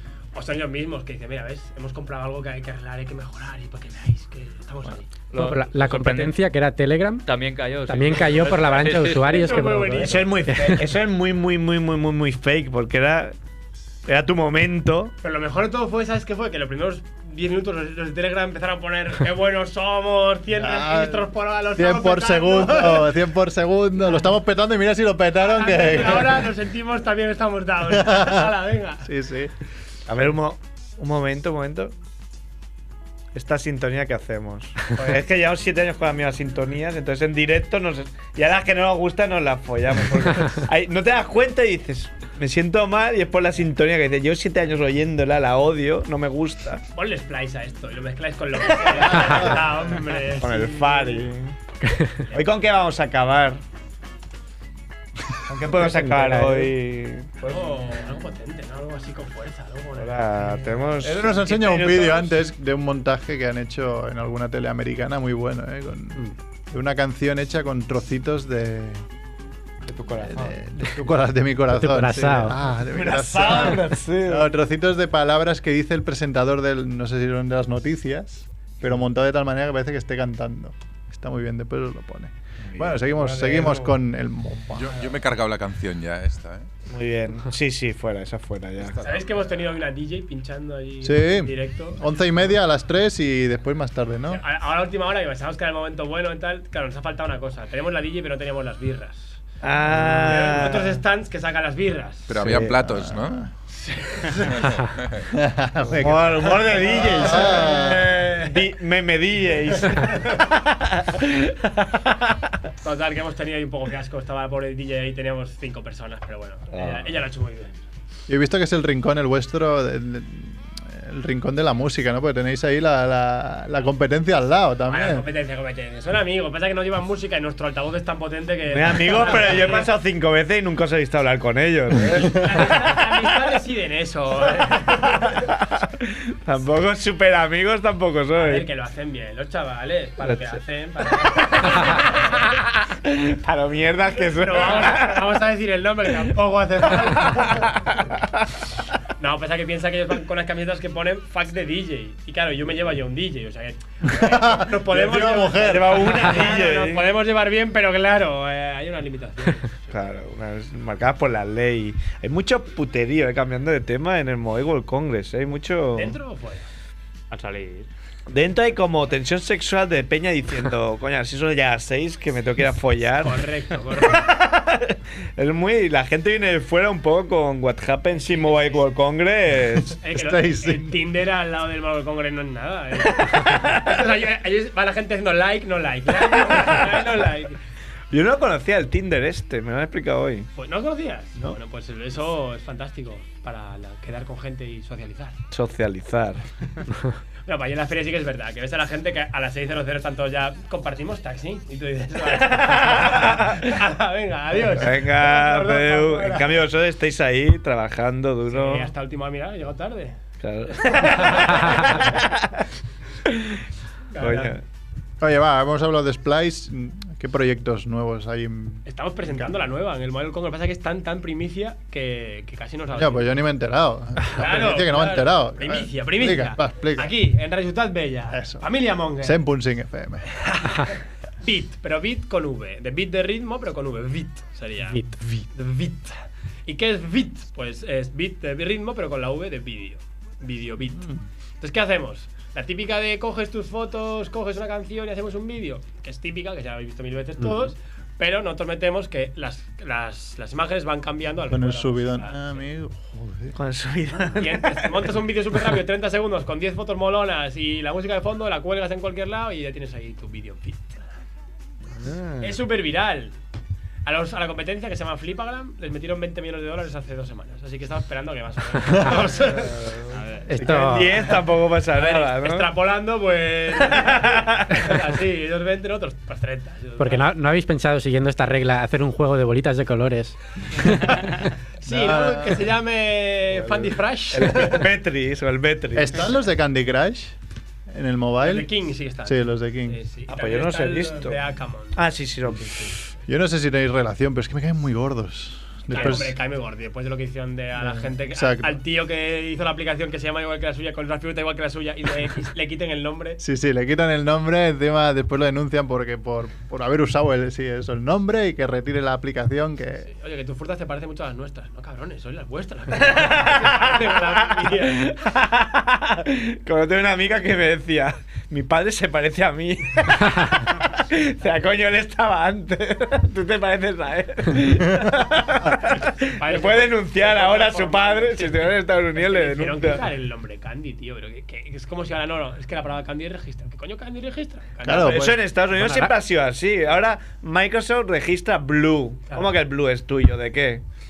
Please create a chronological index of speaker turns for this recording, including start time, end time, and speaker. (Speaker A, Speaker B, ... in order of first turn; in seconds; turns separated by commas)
Speaker A: 0.3-5.2, Speaker B: 5.3-6.4, Speaker C: 5.3-7.3, Speaker B: 7.2-9.5, Speaker C: 7.8-10.8, Speaker A: 9.3-10.5, Speaker D: 10.0-13.3, Speaker D: 14.1-15.1, Speaker A: 15.2-23.1, Speaker E: 20.6-26.5, Speaker A: 25.4-29.1, Speaker E: 27.9-28.5, Speaker E: 29.0-29.5, Speaker D: 30.1-31.9, Speaker D: 33.3-46.8, Speaker A: 46.9-51.3, Speaker D: 49.0-49.4, Speaker D: 50.4-51.5, Speaker C: 51.8-52.2, Speaker D: 52.3-53.6, Speaker D: 55.5-57.6, Speaker C: 55.7-56.7, Speaker A: 57.4-62.3, Speaker D: 60.0-61.3, Speaker E: 61.0-69.0, Speaker D: 69.8-70.6, Speaker E: 70.2-85.0, Speaker C: 71.7-72.6, Speaker D: 72.9-74.5, Speaker D: 82.7-83.7, Speaker A: 83.3-83.9, Speaker F: 84.8-86.7, Speaker D: 86.9-89.0, Speaker A: 89.0-92.0, Speaker E: 91.0-94.4, Speaker A: 94.3-99.4, Speaker D: 99.6-101.0, Speaker A: 100.0-102.3, Speaker F: 102.3-103.5, Speaker D: 102.4-102.8, Speaker E: 102.5-103.5, Speaker A: 103.8-104.5, Speaker F: 104.4-105.2, Speaker E: 105.3-108.2, Speaker D: 105.9-112.4, Speaker A: 106.7-108.2, Speaker A: 112.8-117.8, Speaker D: 116.7-117.2, Speaker E: 118.3-125.2, Speaker A: 124.8-129.9, Speaker D: 128.7-133.0, Speaker A: 132.2-135.5, Speaker D: 135.1-138.7, Speaker A: 138.3-142.6, Speaker D: 141.5-145.3, Speaker A: 144.2-148.0, Speaker A: 149.2-160.1, Speaker E: 154.0-156.1, Speaker D: 155.6-157.0, Speaker D: 159.9-166.1, Speaker A: 165.9-166.7, Speaker B: 167.3-167.9, Speaker D: 168.3-173.4, Speaker A: 173.2-174.3, Speaker D: 174.0-180.0, Speaker A: 178.2-178.8, Speaker A: 180.0-187.6, Speaker E: 180.0-181.0, Speaker D: 188.1-190.5, Speaker A: 190.6-195.4, Speaker D: 195.5-196.4, Speaker A: 197.4-206.6, Speaker D: 202.5-203.7, Speaker D: 204.7-208.9, Speaker A: 208.5-210.2, Speaker D: 210.4-212.6, Speaker A: 210.7-212.1, Speaker D: 213.2-213.6, Speaker A: 214.1-214.6, Speaker D: 214.2-214.6, Speaker E: 215.2-219.5, Speaker A: 218.8-223.4, Speaker E: 222.9-227.1, Speaker A: 224.3-229.4, Speaker E: 228.3-228.7, Speaker E: 229.2-230.3, Speaker A: 230.3-252.5, Speaker C: 234.9-235.4, Speaker E: 251.5-253.5, Speaker D: 253.5-255.1, Speaker A: 254.3-261.0, Speaker D: 261.9-262.6, Speaker A: 262.4-263.4, Speaker A: 264.0-270.4, Speaker D: 269.5-272.7, Speaker B: 270.1-270.4, Speaker C: 270.5-271.3, Speaker A: 271.9-277.3, Speaker D: 273.8-274.7, Speaker C: 277.0-281.3, Speaker A: 281.8-284.9, Speaker E: 281.9-282.7, Speaker D: 283.5-286.2, Speaker E: 285.9-287.4, Speaker E: 287.9-288.7, Speaker A: 288.4-292.0, Speaker E: 289.2-290.0, Speaker D: 290.3-291.4, Speaker D: 291.9-292.9, Speaker E: 293.3-296.4, Speaker A: 295.9-303.4, Speaker E: 297.8-298.8, Speaker E: 303.4-310.1, Speaker A: 310.0-315.1, Speaker D: 312.9-330.1, Speaker A: 326.0-335.5, Speaker E: 334.8-335.4, Speaker D: 334.9-340.8, Speaker C: 335.8-336.1